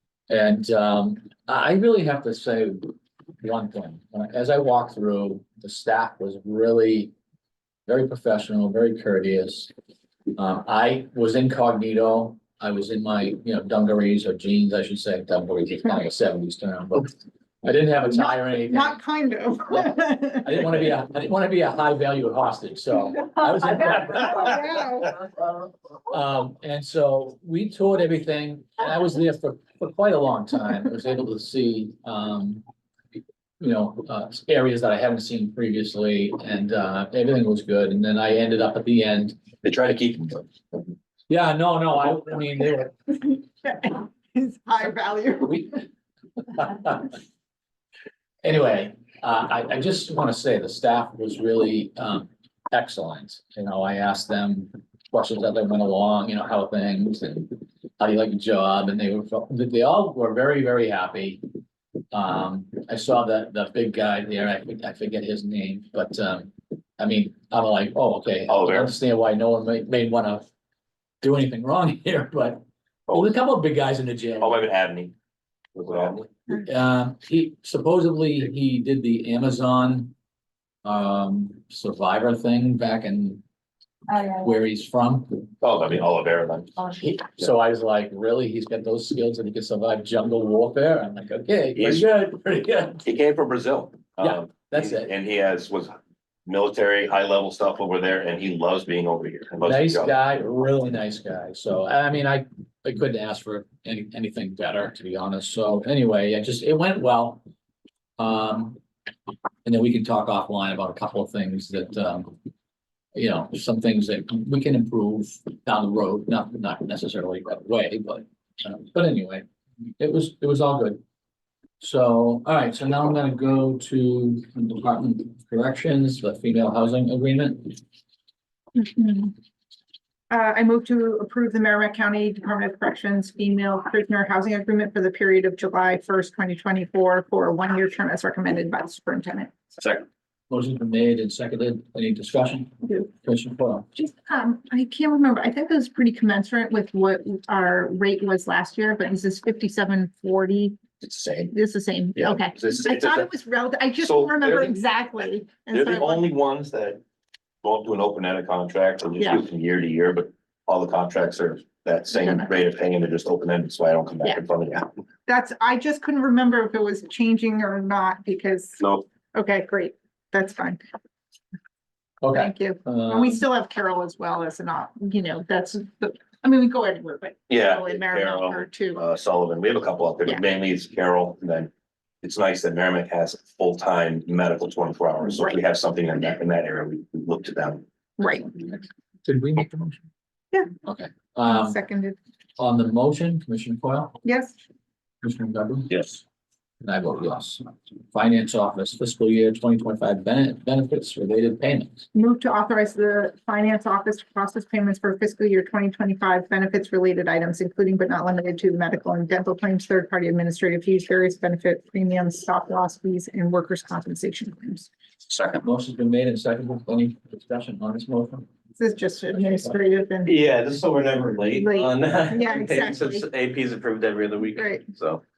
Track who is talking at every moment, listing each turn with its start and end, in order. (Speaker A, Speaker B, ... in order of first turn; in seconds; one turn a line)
Speaker A: 0.3-7.1
Speaker A: 7.8-9.7
Speaker A: 10.3-19.0
Speaker B: 18.1-20.5
Speaker A: 20.4-24.8
Speaker B: 23.8-25.2
Speaker A: 26.1-32.6
Speaker A: 33.6-39.4
Speaker C: 39.6-40.4
Speaker A: 41.3-43.1
Speaker B: 43.3-45.6
Speaker A: 45.5-45.8
Speaker A: 46.5-47.1
Speaker A: 48.4-61.4
Speaker A: 62.1-70.5
Speaker C: 68.5-68.9
Speaker A: 71.2-74.6
Speaker C: 74.4-75.1
Speaker C: 75.7-76.3
Speaker A: 76.5-80.1
Speaker A: 80.8-83.4
Speaker A: 84.3-85.5
Speaker C: 85.6-86.8
Speaker A: 86.9-93.0
Speaker C: 91.8-92.0
Speaker C: 93.0-100.1
Speaker A: 94.2-95.1
Speaker A: 99.6-107.4
Speaker A: 108.2-108.8
Speaker A: 109.6-112.3
Speaker A: 113.1-119.4
Speaker A: 120.0-121.0
Speaker A: 121.8-127.8
Speaker B: 128.7-129.3
Speaker B: 130.3-139.5
Speaker C: 139.8-140.0
Speaker A: 140.5-143.9
Speaker B: 143.9-150.8
Speaker C: 151.0-151.5
Speaker B: 151.5-156.2
Speaker C: 152.2-153.3
Speaker C: 154.0-154.7
Speaker C: 155.7-157.0
Speaker C: 157.6-164.9
Speaker B: 162.2-162.5
Speaker B: 165.2-168.8
Speaker C: 168.8-169.1
Speaker B: 169.3-170.8
Speaker A: 172.2-173.4
Speaker B: 172.3-179.0
Speaker C: 177.5-181.7
Speaker C: 182.2-187.8
Speaker B: 188.2-188.5
Speaker A: 189.2-190.1
Speaker A: 190.8-191.8
Speaker B: 191.4-192.2
Speaker A: 192.6-194.2
Speaker B: 194.2-194.5
Speaker A: 195.2-195.9
Speaker C: 195.9-196.2
Speaker A: 196.8-202.1
Speaker B: 202.1-214.9
Speaker A: 215.3-218.5
Speaker B: 218.8-220.3
Speaker D: 220.2-225.2
Speaker B: 221.5-223.2
Speaker B: 224.6-224.8